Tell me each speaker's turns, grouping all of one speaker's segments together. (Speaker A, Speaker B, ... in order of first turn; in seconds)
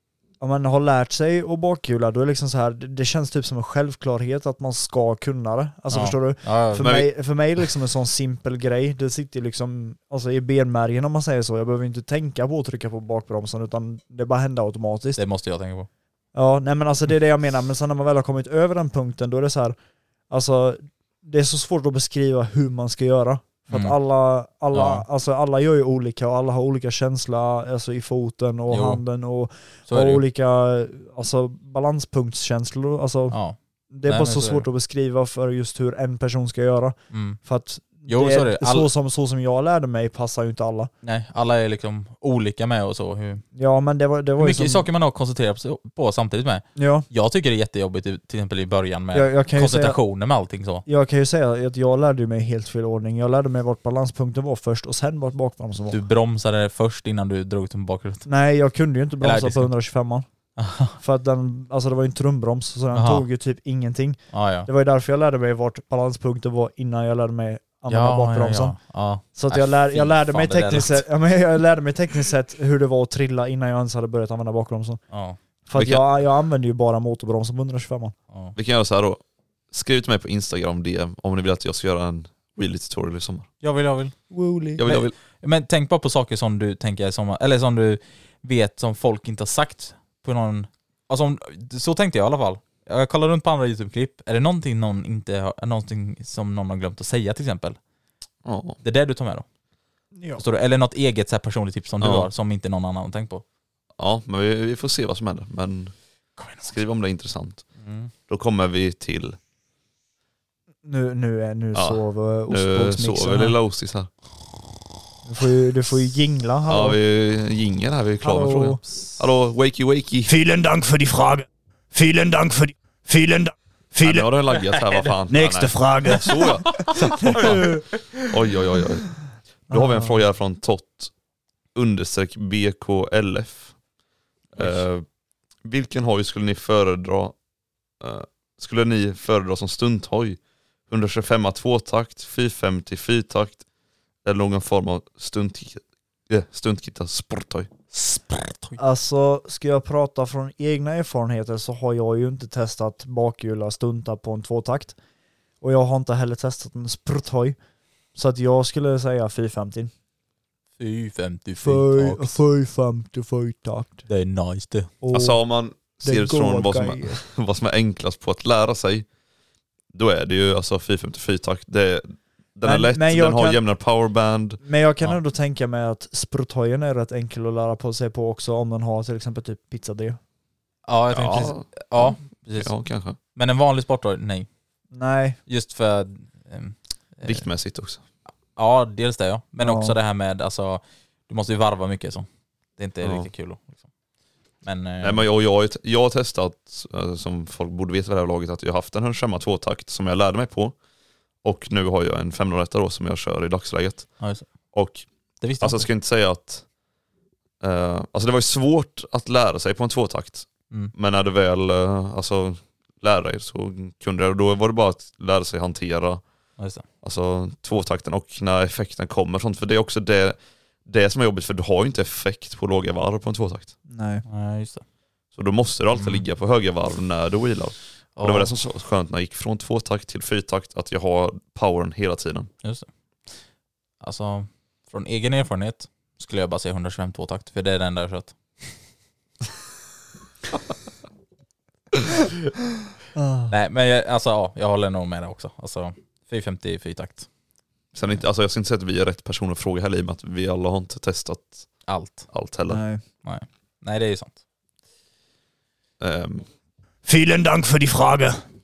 Speaker A: 0.4-15.2, 16.4-19.8, 20.3-33.4, 33.9-40.9, 43.6-44.9, 46.8-47.1, 49.1-50.0, 50.9-56.0, 58.3-60.3, 61.0-68.8, 69.3-75.0, 75.7-78.2, 84.3-84.9, 100.2-100.4, 110.8-113.5, 115.3-117.0, 118.2-118.8, 127.4-127.8, 129.7-130.1, 148.8-154.9, 155.6-157.6, 158.2-159.9, 161.6-164.1, 165.0-165.4, 166.0-167.2, 172.7-173.6, 174.6-180.2, 184.9-185.4, 189.6-189.9, 223.9-224.2, 243.2-243.5, 252.7-253.0
Speaker B: 5.9-6.9, 15.2-15.9, 24.7-25.0, 28.7-29.0, 29.9-30.2, 33.3-34.7, 37.1-37.4, 38.1-38.9, 41.0-43.4, 44.4-50.9, 55.9-58.3, 59.2-59.7, 60.6-61.0, 62.9-63.2, 64.3-64.7, 67.9-71.0, 75.1-75.4, 83.6-84.2, 84.9-97.8, 98.8-99.5, 100.4-103.4, 106.4-106.8, 107.8-108.1, 124.5-125.1, 126.2-128.3, 134.6-134.8, 147.9-148.8, 160.8-162.4, 164.1-164.9, 180.9-182.7, 183.3-184.5, 185.5-187.4, 188.6-193.8, 194.6-195.2, 204.2-204.5, 205.4-205.9, 216.6-216.8, 224.3-224.8, 225.9-226.2, 228.2-228.5, 232.6-232.9, 234.0-238.3, 243.5-247.3, 251.9-252.3, 253.2-254.4
Speaker C: 6.8-7.1, 75.8-76.0, 78.5-79.2, 79.7-83.5, 84.8-85.2, 98.5-98.8, 102.0-102.3, 104.0-105.9, 106.6-107.7, 108.3-109.4, 111.7-114.1, 116.7-120.3, 124.0-129.1, 129.7-131.1, 131.8-133.8, 134.6-135.0, 135.7-137.3, 138.0-140.4, 140.9-143.6, 144.2-147.7, 165.1-169.1, 169.9-174.6, 181.1-183.2, 187.2-188.0, 193.0-193.3, 195.0-200.8, 201.4-204.1, 204.7-205.1, 205.6-206.7, 207.6-216.2, 217.0-223.8, 225.4-232.5, 247.9-251.7, 252.3-252.8, 256.0-256.4
Speaker D: 120.3-124.3, 125.3-126.3, 257.1-258.4